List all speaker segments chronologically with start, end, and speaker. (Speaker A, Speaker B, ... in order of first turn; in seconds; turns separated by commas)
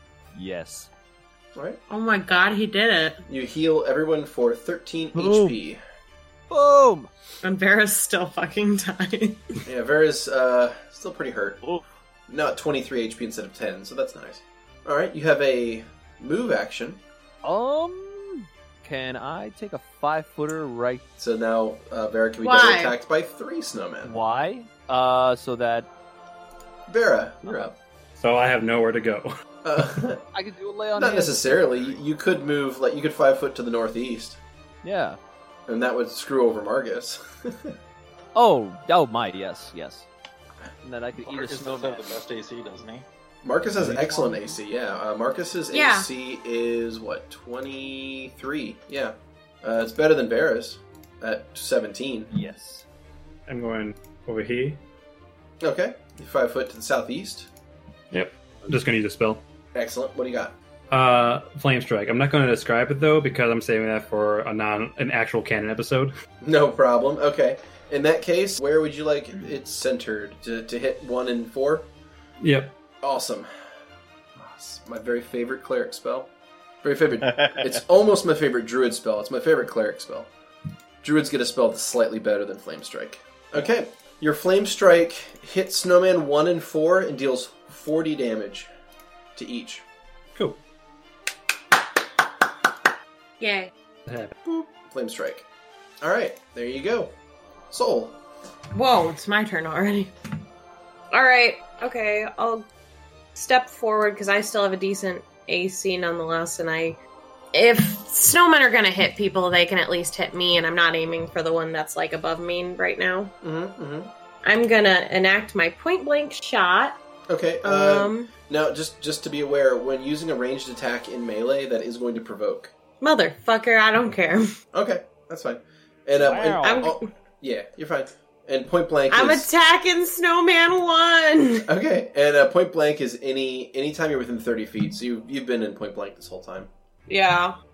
Speaker A: 0.3-0.9, Speaker B: 1.5-1.8, Speaker C: 1.9-3.2, Speaker B: 3.3-5.8, Speaker A: 5.1-5.6, Speaker A: 6.5-7.1, Speaker C: 7.4-9.4, Speaker B: 9.6-11.6, Speaker B: 12.3-17.0, Speaker A: 17.4-21.0, Speaker B: 21.2-24.1, Speaker C: 22.4-22.9, Speaker A: 24.0-25.9, Speaker B: 26.9-27.8, Speaker D: 28.2-29.3, Speaker B: 29.6-30.2, Speaker A: 30.3-32.0, Speaker B: 30.9-34.4, Speaker A: 34.8-35.2, Speaker B: 35.7-37.8, Speaker A: 38.3-40.1, Speaker A: 40.8-42.2, Speaker E: 41.2-43.0, Speaker B: 43.4-52.3, Speaker A: 44.0-44.4, Speaker C: 45.7-46.1, Speaker A: 52.3-52.8, Speaker D: 53.5-54.8, Speaker B: 55.6-57.5, Speaker D: 58.1-59.4, Speaker B: 59.7-60.5, Speaker D: 60.9-66.1, Speaker B: 66.4-71.9, Speaker D: 72.4-72.7, Speaker B: 73.0-73.5, Speaker B: 74.3-76.3, Speaker B: 76.8-80.3, Speaker E: 77.3-77.7, Speaker B: 81.0-88.7, Speaker B: 89.3-89.8, Speaker C: 93.4-93.7, Speaker D: 94.1-94.3, Speaker B: 94.4-95.4, Speaker B: 96.0-97.2, Speaker B: 97.7-98.2, Speaker C: 98.7-100.1, Speaker C: 101.1-102.7, Speaker C: 103.3-107.0, Speaker C: 107.5-113.3, Speaker B: 113.4-114.1, Speaker C: 114.4-117.0, Speaker B: 117.3-122.7, Speaker C: 117.6-118.3, Speaker C: 123.0-124.5, Speaker B: 124.7-129.5, Speaker A: 126.2-126.9, Speaker C: 126.6-127.0, Speaker C: 129.1-131.7, Speaker B: 131.7-136.7, Speaker C: 137.1-137.6